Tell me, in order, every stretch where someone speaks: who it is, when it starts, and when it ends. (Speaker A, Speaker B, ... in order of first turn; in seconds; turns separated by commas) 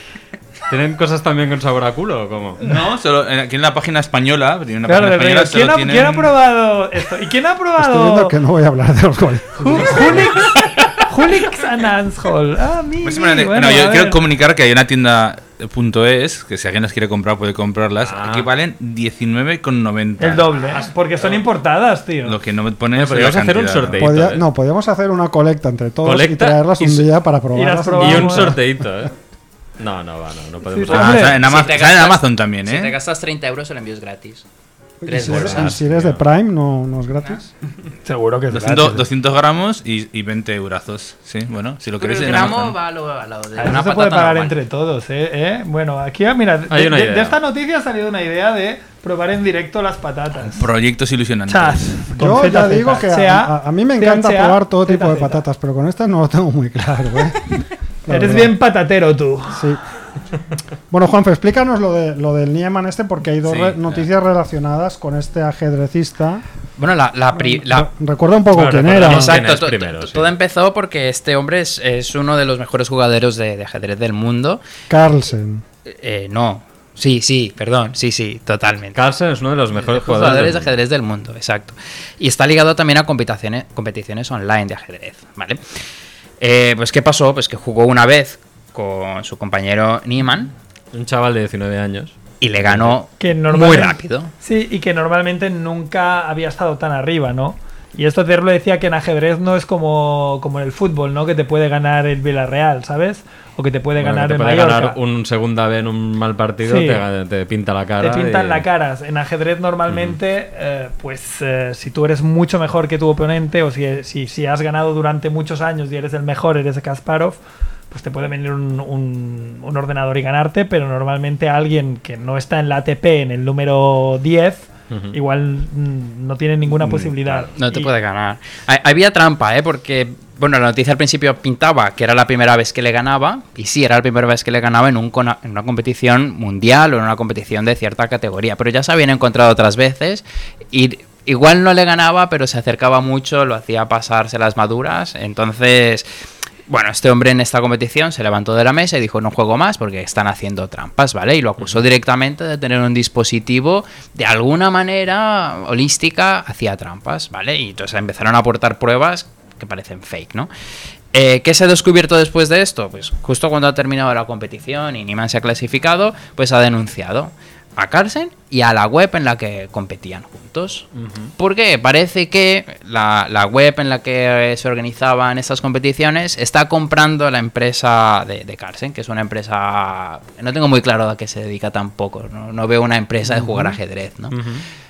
Speaker A: 0.7-2.6, Speaker B: 2.6-6.3, Speaker C: 4.8-8.3, Speaker D: 7.8-10.3, Speaker C: 9.6-14.2, Speaker B: 10.4-10.9, Speaker B: 13.0-20.5, Speaker A: 18.0-18.5, Speaker C: 20.2-22.4, Speaker B: 22.2-24.1, Speaker A: 22.9-24.4, Speaker D: 24.0-28.6, Speaker A: 26.0-27.1, Speaker C: 27.5-28.6, Speaker A: 28.0-29.1, Speaker A: 29.8-31.4, Speaker C: 30.7-31.4, Speaker B: 30.9-33.0, Speaker E: 31.4-34.4, Speaker D: 35.0-37.5, Speaker E: 35.0-35.8, Speaker A: 35.2-36.2, Speaker C: 38.0-39.0, Speaker B: 38.5-42.8, Speaker E: 42.0-44.5, Speaker C: 43.6-50.7, Speaker A: 46.7-47.4, Speaker B: 50.5-52.1, Speaker C: 51.5-55.4, Speaker D: 52.2-57.5, Speaker D: 58.0-58.5, Speaker C: 58.1-59.6, Speaker D: 59.5-59.8, Speaker D: 60.9-66.4, Speaker B: 63.5-64.0, Speaker E: 66.8-67.9, Speaker D: 67.3-69.4, Speaker A: 68.5-70.3, Speaker E: 69.0-74.6, Speaker D: 74.9-75.6, Speaker E: 75.8-79.0, Speaker A: 78.9-80.7, Speaker E: 79.7-85.6, Speaker E: 86.4-90.5, Speaker A: 90.9-93.0, Speaker E: 92.4-94.3, Speaker C: 93.2-105.0, Speaker A: 104.0-108.6, Speaker C: 106.6-107.0, Speaker C: 108.0-117.4, Speaker A: 109.9-110.2, Speaker C: 117.9-127.9, Speaker A: 124.9-125.2, Speaker E: 127.5-146.1, Speaker E: 146.7-160.5, Speaker E: 161.1-184.4, Speaker A: 170.9-171.3, Speaker D: 183.2-183.8, Speaker A: 184.3-184.6